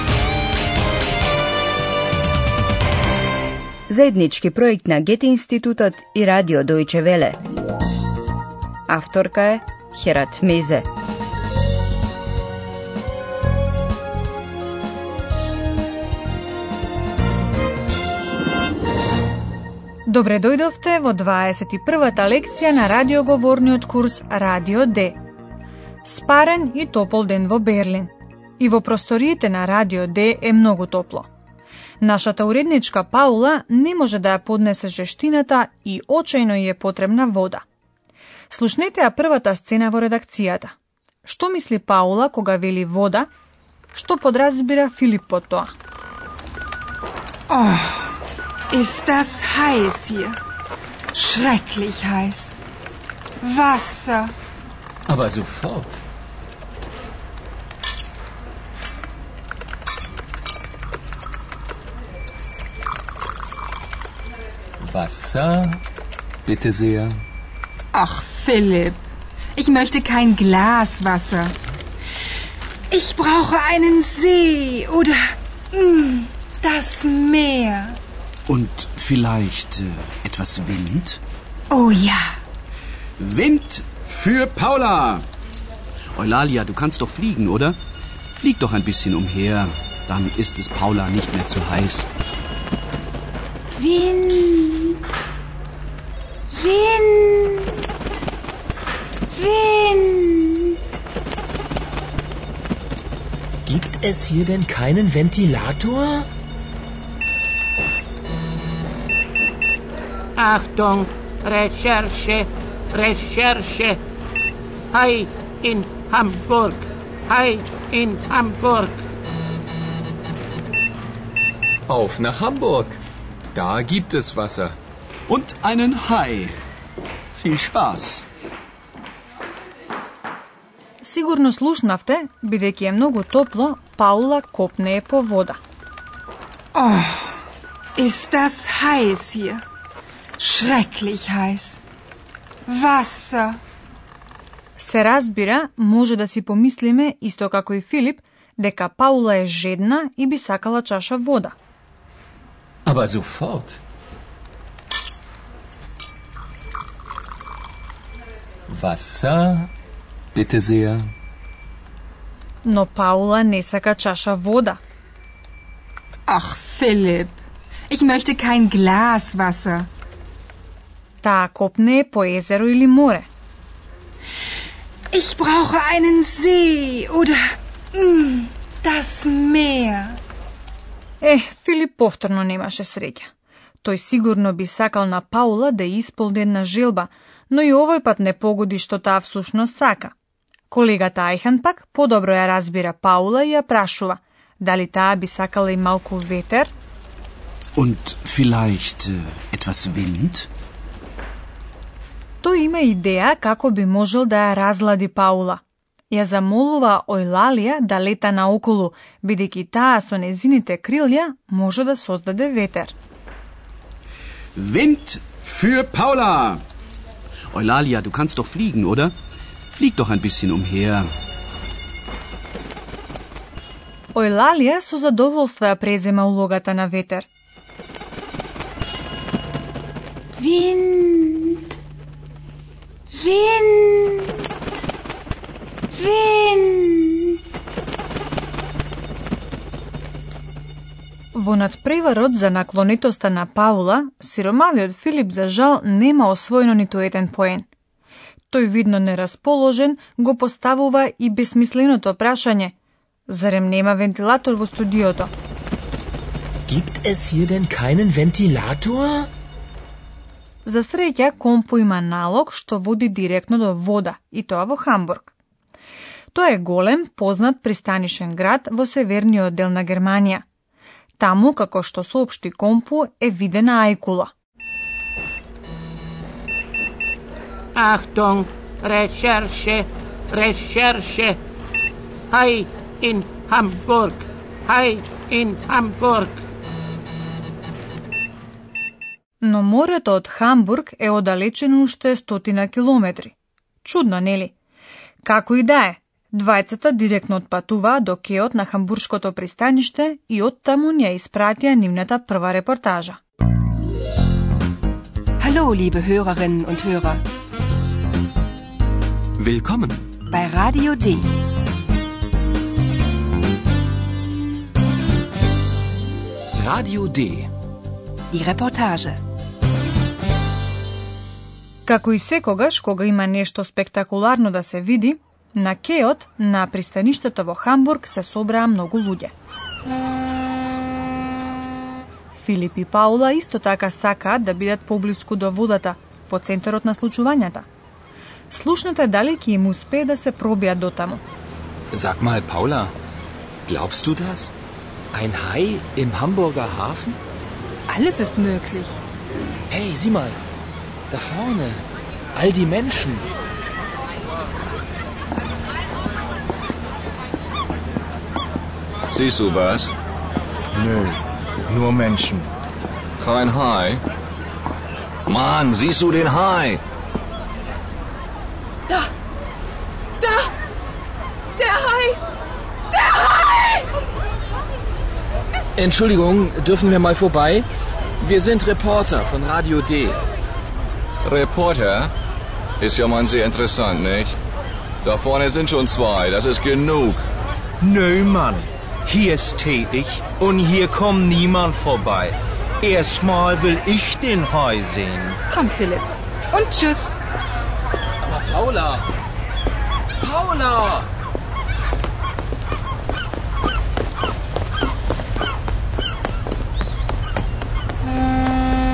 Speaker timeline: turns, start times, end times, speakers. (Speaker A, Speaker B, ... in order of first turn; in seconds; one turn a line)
Speaker A: 3.9-7.4
Speaker A: 8.9-10.8
Speaker B: 20.1-25.2
Speaker B: 26.0-31.3
Speaker B: 32.0-37.6
Speaker B: 38.5-43.3
Speaker B: 43.9-45.7
Speaker C: 47.5-48.1
Speaker C: 48.7-50.4
Speaker C: 51.1-52.5
Speaker C: 53.4-54.3
Speaker D: 55.1-56.0
Speaker D: 64.8-65.8
Speaker D: 66.5-67.1
Speaker C: 67.9-69.0
Speaker C: 69.6-71.5
Speaker C: 72.9-75.2
Speaker C: 75.7-78.0
Speaker E: 78.5-81.2
Speaker C: 81.7-82.4
Speaker E: 83.2-85.2
Speaker E: 86.1-87.8
Speaker E: 88.3-92.1
Speaker F: 93.8-95.0
Speaker F: 96.5-97.8
Speaker F: 99.3-100.7
Speaker D: 103.7-106.3
Speaker G: 110.4-114.0
Speaker G: 114.9-119.0
Speaker D: 121.9-123.0
Speaker D: 123.5-124.8
Speaker E: 125.3-126.5
Speaker E: 127.3-128.2
Speaker B: 131.0-135.6
Speaker C: 136.7-137.4
Speaker C: 138.0-139.6
Speaker C: 140.4-141.8
Speaker C: 142.7-143.6
Speaker B: 144.8-151.5
Speaker D: 152.8-153.8
Speaker D: 158.7-159.7
Speaker D: 160.3-161.0
Speaker B: 162.6-164.8
Speaker C: 166.3-167.4
Speaker C: 167.9-169.9
Speaker B: 171.2-173.3
Speaker C: 175.1-180.2
Speaker B: 181.2-183.3
Speaker B: 183.8-190.1
Speaker B: 190.7-196.7
Speaker E: 197.8-200.5
Speaker B: 202.4-212.9
Speaker E: 214.6-216.6
Speaker E: 217.5-219.1
Speaker E: 219.7-221.1
Speaker B: 224.1-227.3
Speaker F: 230.4-231.6
Speaker F: 233.1-234.3
Speaker F: 235.9-237.4
Speaker B: 241.3-247.7
Speaker B: 248.5-252.7
Speaker B: 253.3-255.3
Speaker D: 256.7-259.3
Speaker B: 260.6-265.3
Speaker B: 266.3-270.4
Speaker B: 271.2-274.3
Speaker G: 277.8-281.4
Speaker G: 282.3-286.4
Speaker B: 289.4-294.5
Speaker B: 295.2-303.2
Speaker H: 305.4-307.1
Speaker D: 309.4-310.1
Speaker H: 310.3-311.2
Speaker D: 316.6-317.5
Speaker H: 318.3-319.1
Speaker B: 321.9-329.3
Speaker B: 332.3-337.6
Speaker B: 338.5-341.2
Speaker D: 341.9-342.9
Speaker D: 343.6-344.5
Speaker D: 345.1-347.2
Speaker H: 348.0-348.8
Speaker D: 349.7-350.4
Speaker D: 351.1-353.3
Speaker I: 359.1-359.9
Speaker I: 363.2-364.0
Speaker I: 365.3-366.8
Speaker D: 375.8-377.6
Speaker D: 378.2-380.3
Speaker I: 381.2-382.1
Speaker I: 382.8-384.4
Speaker I: 385.0-387.3
Speaker J: 387.8-395.4
Speaker C: 395.5-396.0
Speaker C: 396.6-397.1
Speaker D: 398.2-399.1
Speaker D: 400.2-401.1